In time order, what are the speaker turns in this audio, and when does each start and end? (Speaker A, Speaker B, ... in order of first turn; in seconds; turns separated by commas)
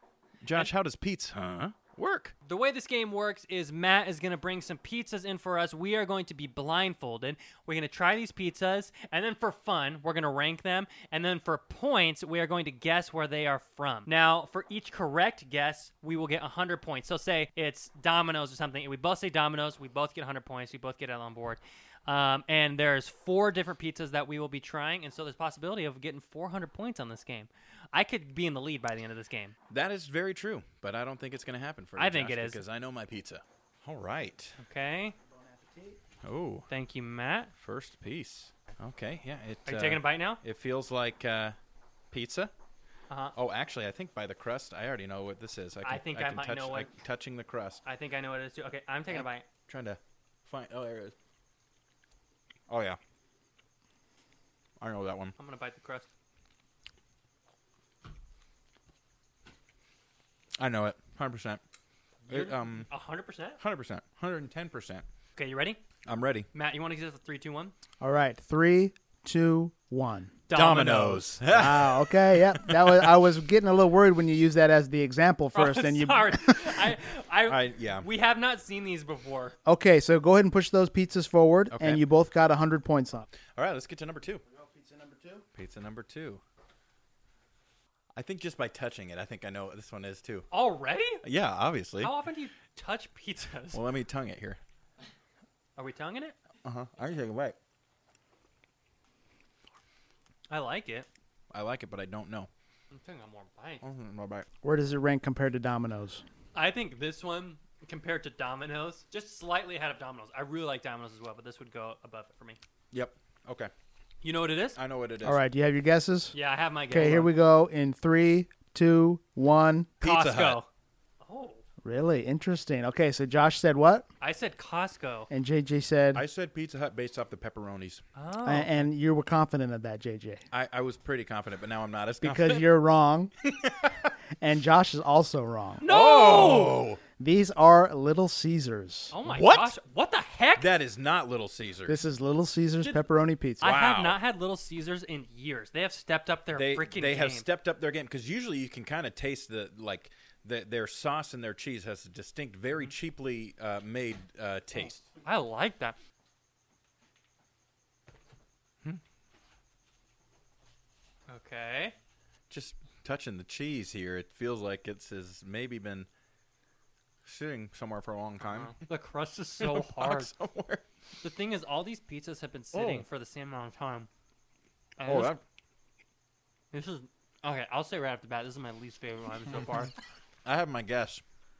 Speaker A: 0.4-2.3, Speaker B: 2.4-29.6, Speaker A: 29.7-34.6, Speaker B: 32.0-32.6, Speaker B: 34.6-35.1, Speaker C: 35.2-36.0, Speaker A: 36.2-36.7, Speaker B: 36.7-37.5, Speaker A: 37.6-41.5, Speaker B: 39.6-40.4, Speaker A: 42.1-42.5, Speaker B: 43.1-43.3, Speaker A: 43.3-47.8, Speaker B: 45.8-46.9, Speaker B: 47.8-49.4, Speaker A: 49.1-51.1, Speaker A: 52.7-53.0, Speaker A: 54.8-55.3, Speaker B: 55.4-56.1, Speaker A: 60.6-61.6, Speaker B: 62.2-63.6, Speaker A: 62.3-62.9, Speaker A: 63.6-65.0, Speaker B: 65.3-65.8, Speaker A: 66.0-66.5, Speaker B: 66.5-67.7, Speaker C: 68.0-70.4, Speaker B: 70.5-71.4, Speaker A: 70.5-73.1, Speaker C: 71.5-76.8, Speaker B: 75.5-79.5, Speaker A: 77.5-78.1, Speaker C: 79.7-83.3, Speaker A: 81.7-82.0, Speaker A: 83.5-84.4, Speaker C: 84.5-85.4, Speaker A: 85.5-86.4, Speaker A: 88.1-90.5, Speaker B: 90.5-91.2, Speaker A: 91.2-92.1, Speaker B: 92.0-93.8, Speaker A: 93.7-94.6, Speaker B: 95.8-96.4, Speaker A: 96.6-97.5, Speaker B: 100.5-101.1, Speaker A: 101.5-102.5, Speaker B: 102.9-103.8, Speaker A: 103.8-104.5, Speaker C: 104.6-106.2, Speaker B: 106.5-112.6, Speaker A: 112.9-113.7, Speaker B: 114.2-114.8, Speaker A: 114.8-115.4, Speaker C: 115.2-116.3, Speaker B: 116.3-117.3, Speaker C: 116.9-119.9, Speaker A: 120.0-120.6, Speaker B: 120.0-120.7, Speaker B: 121.2-121.6, Speaker C: 121.8-124.0, Speaker B: 124.2-125.3, Speaker C: 125.3-126.2, Speaker A: 126.1-128.0, Speaker B: 128.1-128.7, Speaker C: 128.4-130.4, Speaker A: 130.5-132.7, Speaker C: 132.2-133.3, Speaker A: 133.4-134.1, Speaker C: 134.4-135.8, Speaker B: 135.8-136.8, Speaker A: 135.8-137.0, Speaker C: 137.2-139.1, Speaker B: 139.1-140.7, Speaker A: 139.3-139.7, Speaker A: 140.6-142.0, Speaker C: 141.9-143.7, Speaker B: 143.6-147.4, Speaker A: 143.6-144.2, Speaker A: 146.5-155.1, Speaker B: 154.7-156.0, Speaker B: 161.3-161.9, Speaker A: 162.5-166.1, Speaker A: 167.2-168.7, Speaker B: 168.4-170.3, Speaker A: 169.6-170.8, Speaker B: 171.2-174.1, Speaker A: 172.7-173.0, Speaker B: 175.0-175.3, Speaker A: 175.0-175.4, Speaker B: 176.7-179.9, Speaker A: 180.4-181.2